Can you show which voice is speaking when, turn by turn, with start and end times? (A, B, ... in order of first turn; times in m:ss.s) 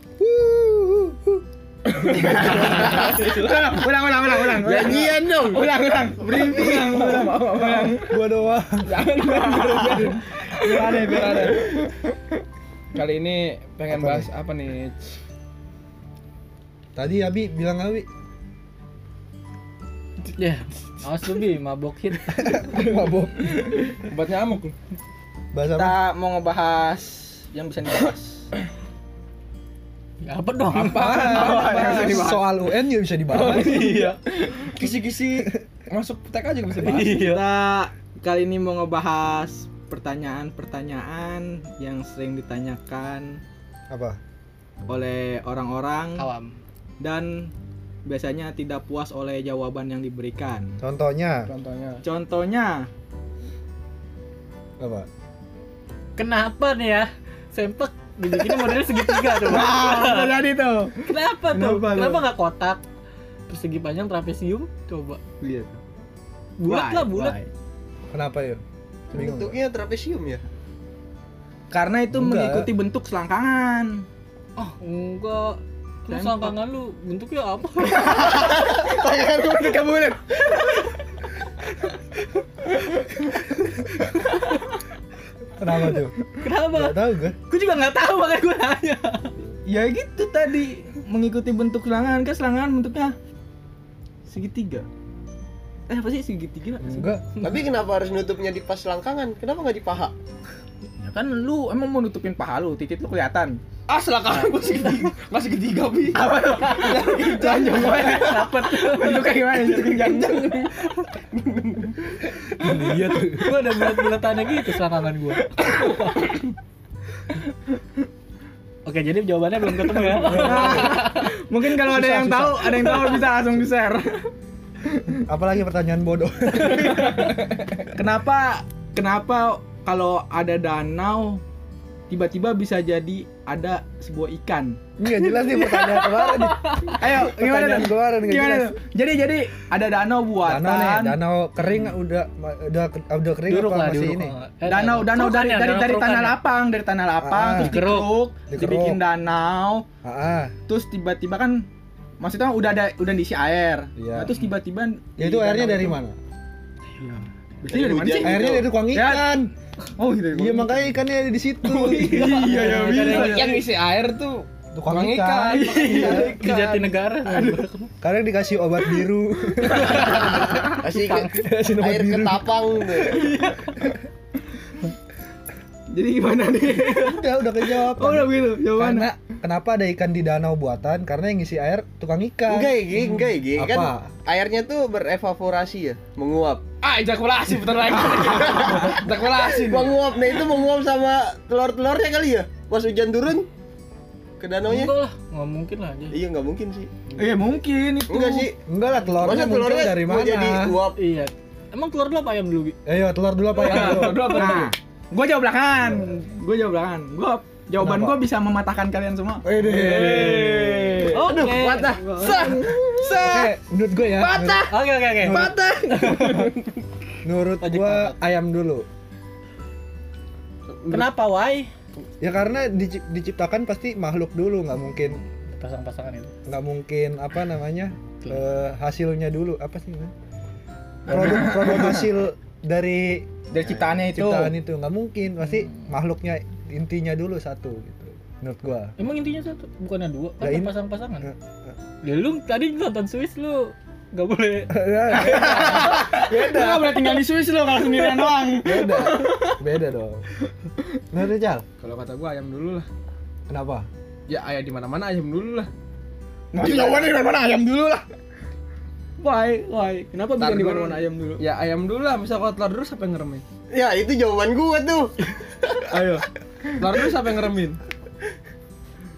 0:00.2-0:01.4 A
0:01.9-0:03.7 B
0:02.0-0:08.2 C
0:02.4-0:02.9 A
0:04.6-0:05.7 D
0:06.4-0:07.9 B
0:08.0-0:08.9 A
0:08.8-0:12.1 B
0:09.0-0:11.6 C
0:12.9-0:15.0 B
0:13.9-0:14.3 A
0:17.0-0:18.1 A
0:20.3-0:22.7 E
0:22.3-0:23.6 A
0:23.9-0:24.7 B
0:25.5-0:26.0 A
0:25.7-0:28.5 C
0:30.2-0:31.4 E
0:30.7-0:32.5 B
0:30.8-0:33.9 A
0:31.3-0:32.4 C
0:33.3-0:37.1 B
0:33.7-0:34.1 E
0:36.8-0:37.5 E
0:36.9-0:43.4 C
0:43.9-0:44.2 A
0:44.9-0:46.3 C
0:46.2-0:46.6 E
0:47.0-0:47.5 C
0:48.0-0:50.8 C
0:50.8-0:51.5 A
0:51.5-0:52.0 B
0:52.0-0:52.9 C
0:54.8-0:55.1 A
0:56.2-1:00.3 E
0:58.4-1:01.0 C
1:01.0-1:02.8 E
1:01.5-1:02.3 C
1:03.5-1:05.2 E
1:05.4-1:05.8 C
1:06.6-1:07.4 E
1:06.6-1:07.5 C
1:08.1-1:08.6 A
1:09.1-1:10.4 D
1:09.1-1:09.6 A
1:11.7-1:14.0 C
1:12.1-1:12.7 A
1:14.6-1:18.6 E
1:16.1-1:16.5 C
1:17.8-1:20.8 C
1:20.4-1:20.9 E
1:25.6-1:27.4 A
1:26.4-1:29.3 E
1:29.7-1:33.1 C
1:34.3-1:34.9 C
1:35.9-1:37.1 C
1:36.8-1:37.3 A
1:37.4-1:40.1 D
1:41.0-1:43.6 C
1:43.9-1:48.3 B
1:46.2-1:50.7 C
1:47.7-1:49.4 E
1:49.4-1:50.7 B
1:51.3-1:52.2 B
1:52.6-1:53.7 A
1:53.4-1:56.1 E
1:58.8-2:01.2 E
2:00.2-2:01.1 A
2:00.3-2:04.3 C
2:01.8-2:03.2 A
2:04.8-2:05.2 C
2:05.2-2:07.0 A
2:06.7-2:07.3 C
2:07.0-2:07.8 B
2:08.0-2:11.4 C
2:12.1-2:21.2 C
2:15.0-2:18.8 A
2:16.5-2:17.0 E
2:20.4-2:24.3 A
2:23.5-2:26.4 E
2:24.6-2:29.8 C
2:27.2-2:27.8 A
2:27.6-2:28.2 E
2:28.5-2:29.0 A
2:30.0-2:30.5 A
2:30.7-2:31.6 C
2:32.2-2:36.0 C
2:34.0-2:34.4 A
2:35.2-2:36.2 A
2:37.6-2:39.3 C
2:37.7-2:38.8 D
2:38.1-2:39.5 A
2:39.9-2:40.9 C
2:40.3-2:42.3 A
2:41.6-2:47.0 B
2:41.9-2:43.6 C
2:42.0-2:43.6 E
2:44.7-2:46.4 A
2:45.6-2:47.9 E
2:45.7-2:46.3 C
2:47.3-2:47.6 C
2:48.0-2:50.2 A
2:49.7-2:51.6 E
2:49.8-2:50.8 C
2:50.8-2:53.3 D
2:52.1-2:52.4 B
2:53.0-2:53.9 E
2:55.9-2:59.1 C
2:56.9-3:02.7 A
3:02.5-3:06.6 D
3:03.6-3:04.1 A
3:06.8-3:10.1 B
3:08.2-3:08.8 D
3:09.4-3:13.5 D
3:14.4-3:14.9 D
3:14.7-3:16.2 E
3:16.1-3:16.9 D
3:17.2-3:18.5 C
3:18.1-3:18.6 D
3:18.6-3:20.8 A
3:19.2-3:21.0 D
3:21.0-3:22.8 E
3:22.8-3:24.4 A
3:23.6-3:24.7 B
3:23.6-3:24.7 E
3:24.2-3:29.4 C
3:27.8-3:28.2 A
3:29.4-3:31.0 A
3:29.6-3:36.8 B
3:31.1-3:32.5 E
3:31.3-3:32.0 D
3:32.0-3:33.3 C
3:33.2-3:35.6 A
3:34.7-3:35.4 E
3:35.9-3:36.5 E
3:37.2-3:38.9 A
3:37.6-3:38.2 E
3:40.7-3:41.1 B
3:40.9-3:41.7 E
3:42.2-3:45.2 A
3:45.5-3:46.3 E
3:46.5-3:50.1 A
3:51.1-3:52.1 C
3:51.1-3:53.3 A
3:53.5-3:54.6 C
3:54.1-3:58.9 A
3:59.0-4:01.3 E
4:00.4-4:01.7 A
4:02.0-4:06.1 E
4:04.7-4:05.8 A
4:05.1-4:09.6 C
4:08.6-4:10.2 A
4:11.1-4:11.6 A
4:11.8-4:12.9 B
4:13.5-4:13.9 A
4:14.3-4:15.7 B
4:16.5-4:18.0 C
4:19.2-4:21.4 C
4:20.4-4:23.4 B
4:23.7-4:25.7 D
4:25.9-4:27.8 B